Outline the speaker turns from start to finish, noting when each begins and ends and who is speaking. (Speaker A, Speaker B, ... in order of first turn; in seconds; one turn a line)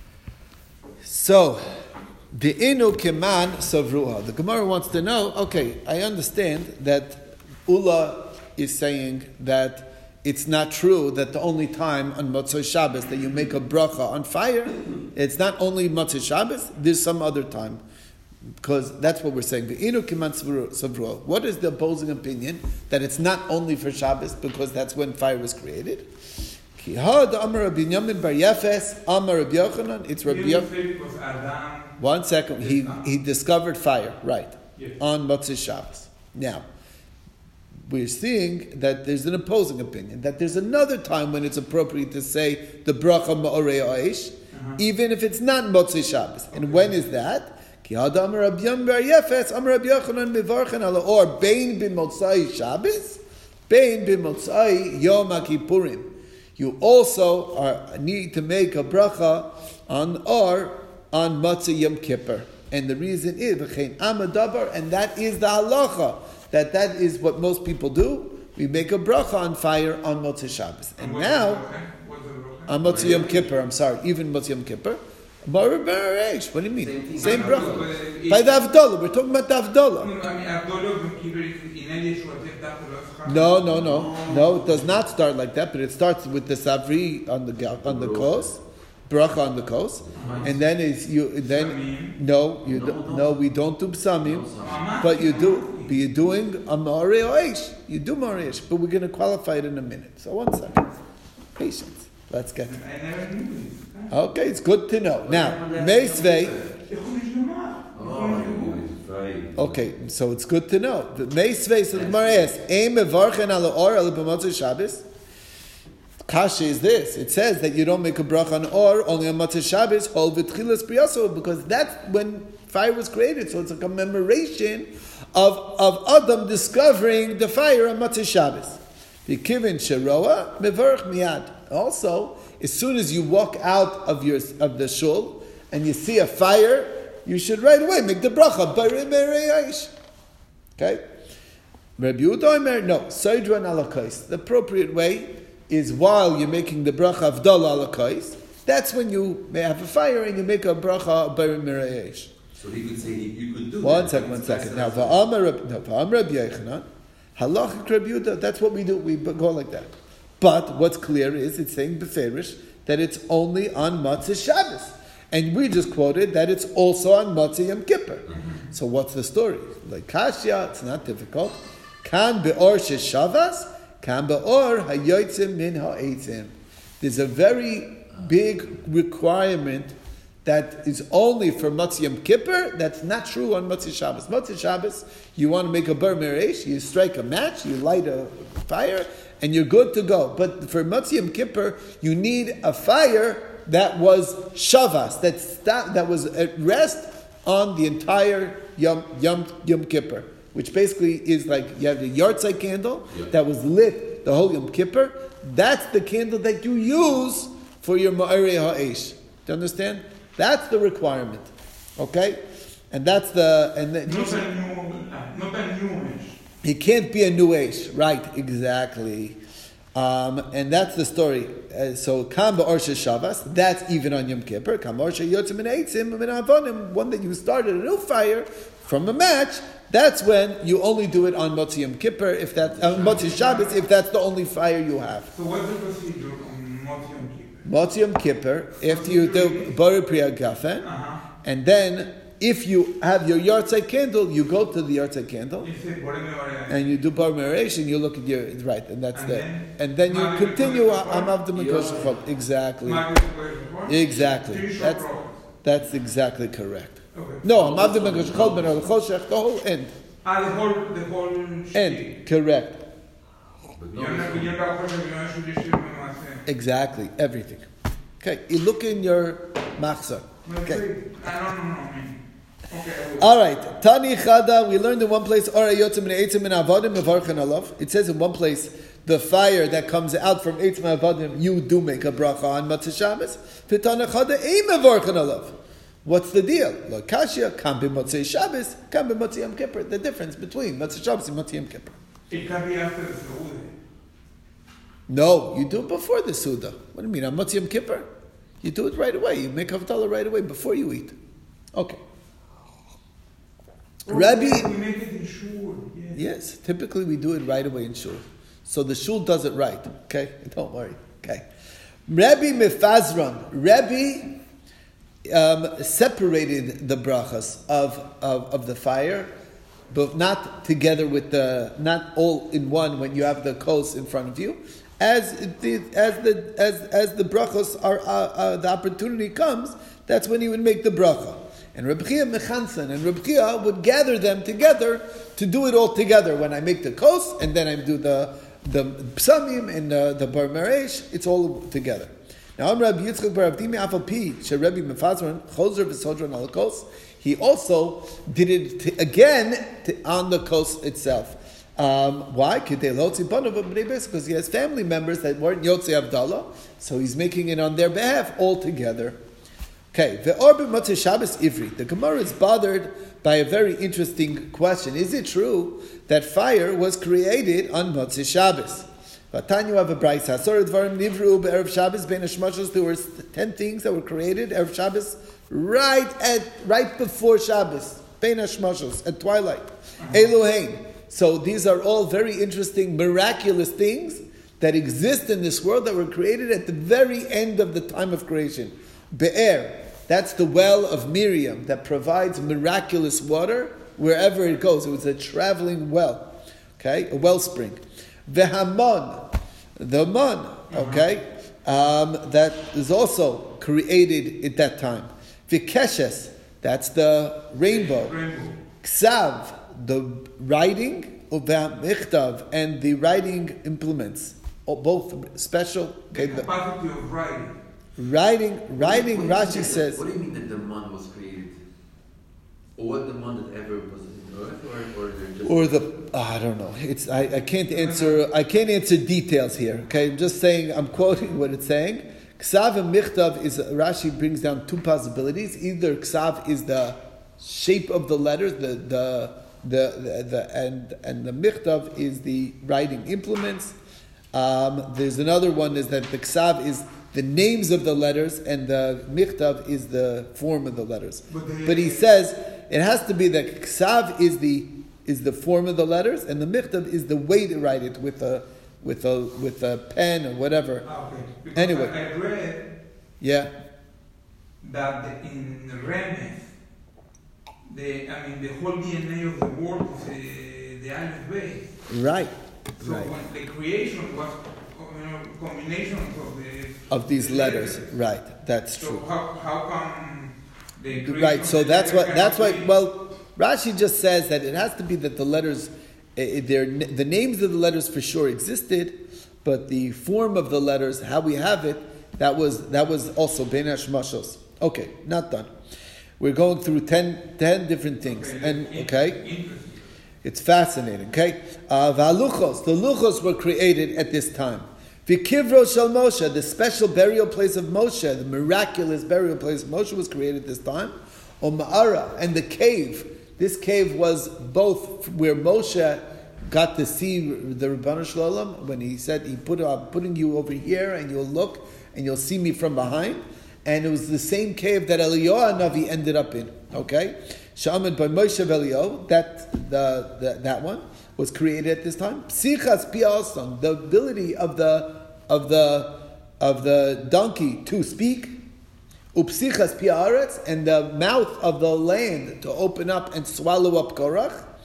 Speaker A: 1.0-1.6
Speaker A: 2.3-17.8
Speaker A: 18.6-26.1
Speaker A: 26.8-30.7
Speaker B: 30.2-32.0
Speaker A: 32.0-36.6
Speaker B: 32.6-33.0
Speaker A: 37.9-71.6
Speaker B: 44.5-44.8
Speaker B: 71.0-72.8
Speaker A: 72.7-80.1
Speaker C: 72.8-73.4
Speaker C: 76.8-77.9
Speaker B: 77.2-78.7
Speaker B: 80.0-84.9
Speaker A: 83.2-94.5
Speaker C: 87.8-88.5
Speaker C: 90.1-90.5
Speaker B: 90.2-90.5
Speaker B: 91.5-92.2
Speaker C: 92.6-93.4
Speaker C: 94.2-95.0
Speaker B: 94.6-95.9
Speaker A: 95.0-101.0
Speaker A: 101.6-102.7
Speaker B: 102.6-104.2
Speaker A: 104.1-106.5
Speaker C: 105.2-106.8
Speaker B: 106.9-108.8
Speaker C: 108.0-109.8
Speaker A: 109.5-115.0
Speaker C: 111.9-112.5
Speaker A: 116.3-139.9
Speaker A: 140.8-141.1
Speaker A: 142.0-152.3
Speaker C: 152.6-155.2
Speaker A: 153.8-179.9
Speaker A: 180.4-214.5
Speaker B: 214.1-216.4
Speaker A: 216.6-219.4
Speaker A: 219.9-235.3
Speaker B: 232.9-233.8
Speaker B: 235.3-237.6
Speaker A: 237.6-240.9
Speaker B: 238.8-239.8
Speaker B: 240.8-241.2
Speaker A: 241.4-245.7
Speaker B: 245.6-246.9
Speaker A: 246.7-253.1
Speaker B: 249.1-251.4
Speaker C: 251.5-252.2
Speaker B: 252.8-255.3
Speaker A: 253.9-255.0
Speaker A: 255.6-259.9
Speaker B: 257.1-257.5
Speaker C: 257.5-258.8
Speaker B: 260.2-262.1
Speaker A: 261.7-262.8
Speaker C: 263.8-264.6
Speaker B: 263.9-266.4
Speaker A: 266.5-267.7
Speaker A: 268.2-270.8
Speaker B: 270.4-273.3
Speaker A: 273.2-291.9
Speaker B: 292.3-293.7
Speaker A: 295.1-298.1
Speaker A: 298.6-301.2
Speaker A: 301.7-302.0
Speaker B: 304.1-306.2
Speaker A: 304.1-304.7
Speaker A: 306.1-311.5
Speaker A: 312.1-314.4
Speaker A: 315.2-319.3
Speaker A: 319.9-359.2
Speaker A: 359.9-408.1
Speaker B: 400.7-401.1
Speaker B: 407.6-408.6
Speaker A: 408.8-416.5
Speaker B: 416.1-417.5
Speaker A: 418.0-420.0
Speaker C: 418.8-421.6
Speaker C: 422.8-425.8
Speaker A: 425.4-443.8
Speaker B: 427.7-428.2
Speaker A: 444.3-460.9
Speaker B: 451.3-452.1
Speaker B: 460.9-462.6
Speaker A: 461.5-461.9
Speaker A: 463.2-463.5
Speaker B: 464.6-466.5
Speaker B: 467.7-471.7
Speaker A: 471.9-473.1
Speaker B: 472.8-477.8
Speaker A: 476.9-479.0
Speaker B: 478.8-482.7
Speaker A: 480.9-495.5
Speaker A: 496.2-499.2
Speaker B: 498.1-499.8
Speaker A: 500.2-538.4
Speaker A: 539.1-544.5